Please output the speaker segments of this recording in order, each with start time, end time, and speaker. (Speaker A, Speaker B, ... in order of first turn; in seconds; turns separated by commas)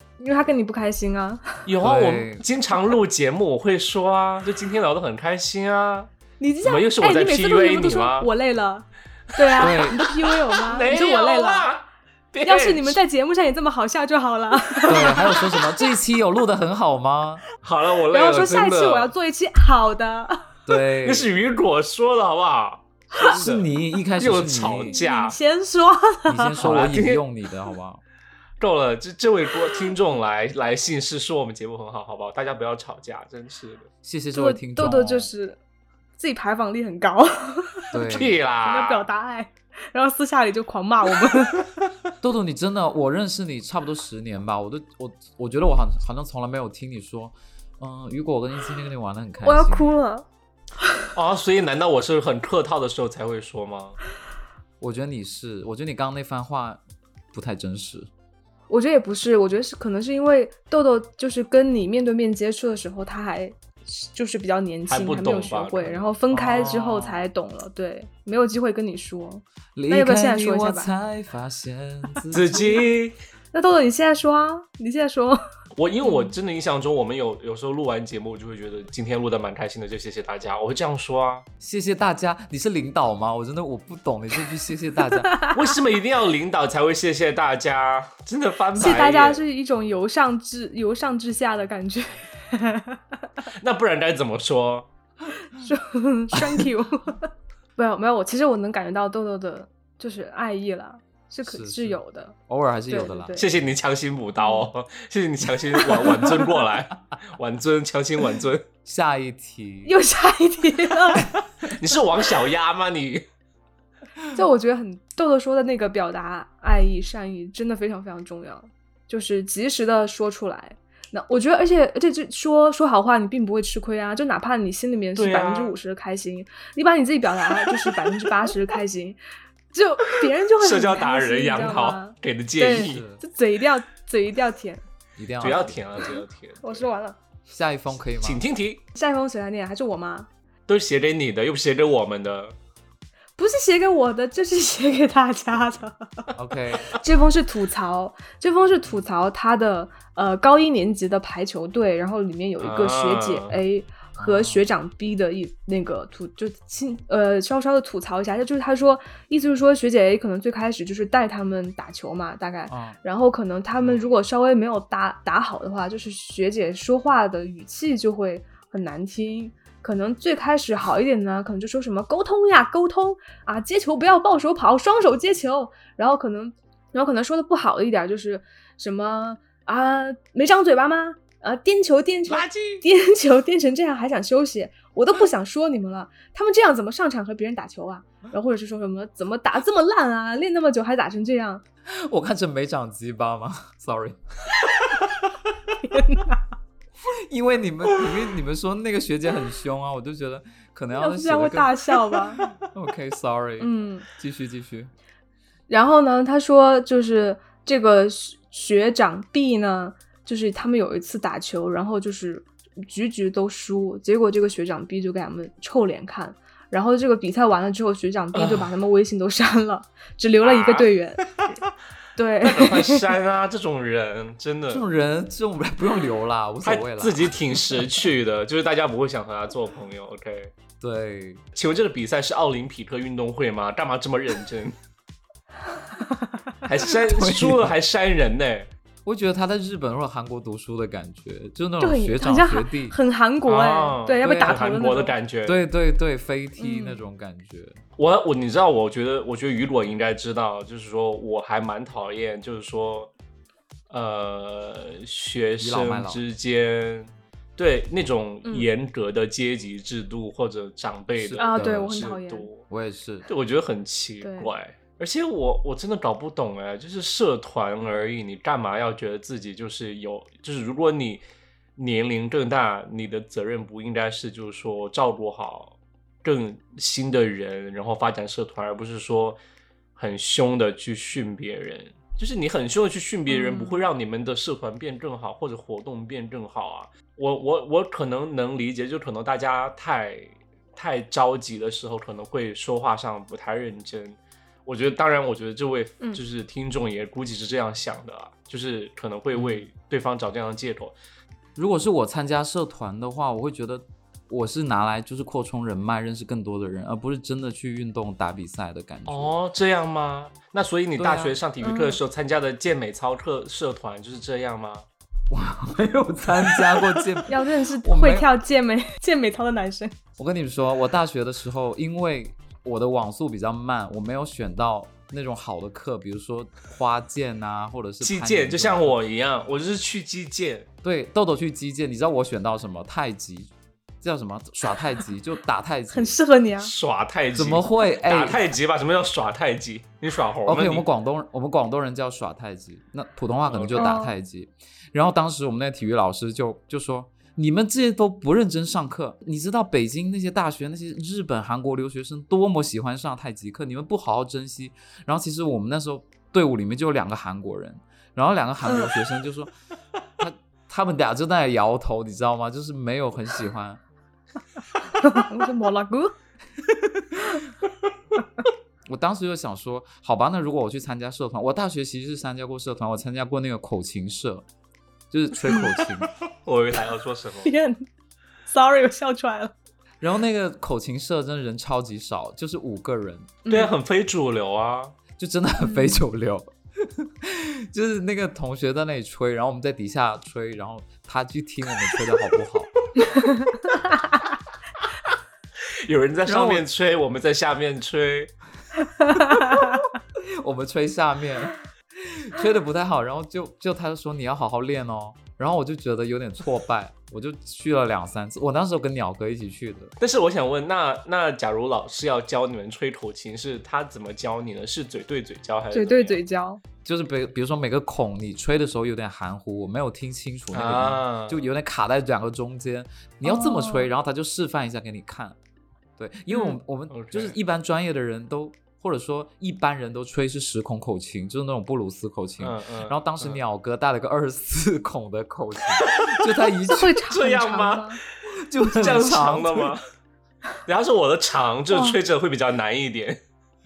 Speaker A: 0.2-1.6, Speaker B: 1.6-6.1, Speaker C: 1.8-2.4, Speaker A: 6.4-11.7, Speaker B: 6.6-8.3, Speaker B: 9.4-13.0, Speaker C: 9.6-10.0, Speaker A: 12.4-15.9, Speaker C: 14.9-17.4, Speaker B: 17.6-19.1, Speaker A: 18.1-20.5, Speaker C: 20.6-21.3, Speaker B: 21.0-25.4, Speaker C: 23.2-25.0, Speaker A: 24.9-26.6, Speaker C: 26.2-28.0, Speaker B: 26.6-27.2, Speaker B: 28.6-33.9, Speaker C: 34.0-35.3, Speaker A: 34.3-35.6, Speaker A: 36.2-41.7, Speaker C: 37.9-38.4, Speaker B: 38.1-39.1, Speaker C: 42.2-50.0, Speaker A: 49.4-50.2, Speaker B: 51.1-54.0, Speaker C: 54.8-56.8, Speaker C: 57.3-58.1, Speaker A: 58.7-70.9, Speaker B: 64.9-66.1, Speaker C: 66.3-67.2, Speaker C: 69.8-72.8, Speaker B: 72.3-73.2, Speaker A: 73.5-75.4, Speaker B: 75.8-81.5, Speaker A: 76.0-76.3, Speaker C: 81.6-85.3, Speaker A: 85.2-85.7, Speaker B: 85.5-89.4, Speaker A: 88.8-93.0, Speaker B: 93.5-94.9, Speaker A: 95.5-102.3, Speaker C: 101.4-103.4, Speaker A: 102.9-103.5, Speaker B: 103.3-108.7, Speaker A: 104.4-104.7, Speaker A: 105.8-106.6, Speaker C: 108.8-109.9, Speaker A: 109.8-111.3, Speaker B: 111.6-113.2, Speaker A: 114.3-129.2, Speaker B: 125.2-125.8, Speaker A: 129.7-134.8, Speaker B: 130.6-133.0, Speaker C: 132.8-133.2, Speaker C: 135.2-136.1, Speaker B: 135.4-136.9, Speaker A: 135.4-137.2, Speaker C: 137.5-138.4, Speaker B: 138.2-138.8, Speaker A: 138.9-140.3, Speaker B: 140.7-142.5, Speaker A: 143.4-146.3, Speaker C: 146.3-147.0, Speaker A: 146.8-191.6, Speaker B: 152.6-153.6, Speaker C: 154.2-154.7, Speaker C: 162.7-163.0, Speaker B: 163.8-164.1, Speaker B: 182.3-182.8, Speaker C: 191.9-194.2, Speaker A: 195.8-196.4, Speaker C: 197.1-204.9, Speaker A: 200.9-202.4, Speaker A: 203.6-204.1, Speaker A: 205.7-221.4, Speaker B: 218.3-218.7, Speaker B: 220.4-221.5, Speaker A: 222.2-223.0, Speaker B: 222.4-224.8, Speaker C: 224.7-227.3, Speaker B: 226.6-230.5, Speaker C: 230.8-231.4, Speaker B: 231.5-234.7, Speaker B: 236.6-238.7, Speaker C: 236.8-237.7, Speaker C: 239.0-242.9, Speaker A: 241.8-245.1, Speaker B: 243.4-245.6, Speaker C: 244.2-244.6, Speaker C: 245.4-247.8, Speaker A: 246.6-247.0, Speaker B: 248.0-253.1, Speaker B: 253.9-262.7, Speaker C: 255.6-256.2, Speaker C: 261.2-262.1, Speaker A: 261.4-262.5, Speaker C: 262.7-263.3, Speaker B: 263.3-271.2, Speaker A: 264.2-264.5, Speaker B: 271.8-279.4, Speaker B: 279.9-300.9, Speaker A: 283.3-283.8, Speaker C: 299.3-299.6, Speaker C: 301.6-309.3, Speaker B: 309.1-314.9, Speaker C: 311.0-311.4, Speaker A: 311.6-312.0, Speaker C: 315.3-318.3, Speaker B: 316.6-317.0, Speaker A: 317.3-320.0, Speaker C: 320.2-328.9, Speaker B: 328.0-330.7, Speaker C: 330.8-336.1, Speaker A: 335.9-336.7, Speaker B: 336.6-340.9, Speaker C: 337.3-338.4, Speaker C: 340.4-359.5, Speaker B: 343.5-344.0, Speaker A: 343.8-344.2, Speaker A: 358.6-358.9, Speaker C: 360.2-363.8, Speaker A: 365.0-366.1, Speaker C: 368.9-374.4, Speaker C: 375.1-376.1, Speaker A: 375.5-375.7, Speaker B: 376.3-377.5, Speaker A: 377.4-377.9, Speaker A: 378.5-379.5, Speaker C: 380.0-383.4, Speaker A: 383.4-383.7, Speaker B: 383.5-384.9, Speaker C: 385.2-392.7, Speaker A: 385.6-386.0, Speaker A: 393.1-393.6, Speaker B: 395.7-398.3, Speaker C: 396.2-396.6, Speaker A: 399.0-399.8, Speaker C: 399.3-399.8, Speaker C: 400.4-409.9, Speaker B: 410.0-416.2, Speaker A: 415.7-416.6, Speaker C: 416.8-425.4, Speaker B: 420.5-421.5, Speaker A: 423.2-423.9, Speaker C: 426.0-436.9, Speaker A: 426.3-426.6, Speaker B: 426.9-427.4, Speaker B: 432.4-433.4, Speaker A: 436.7-438.0, Speaker B: 437.1-438.0, Speaker C: 438.3-439.7, Speaker B: 438.7-439.8, Speaker B: 440.6-443.2, Speaker A: 441.7-442.0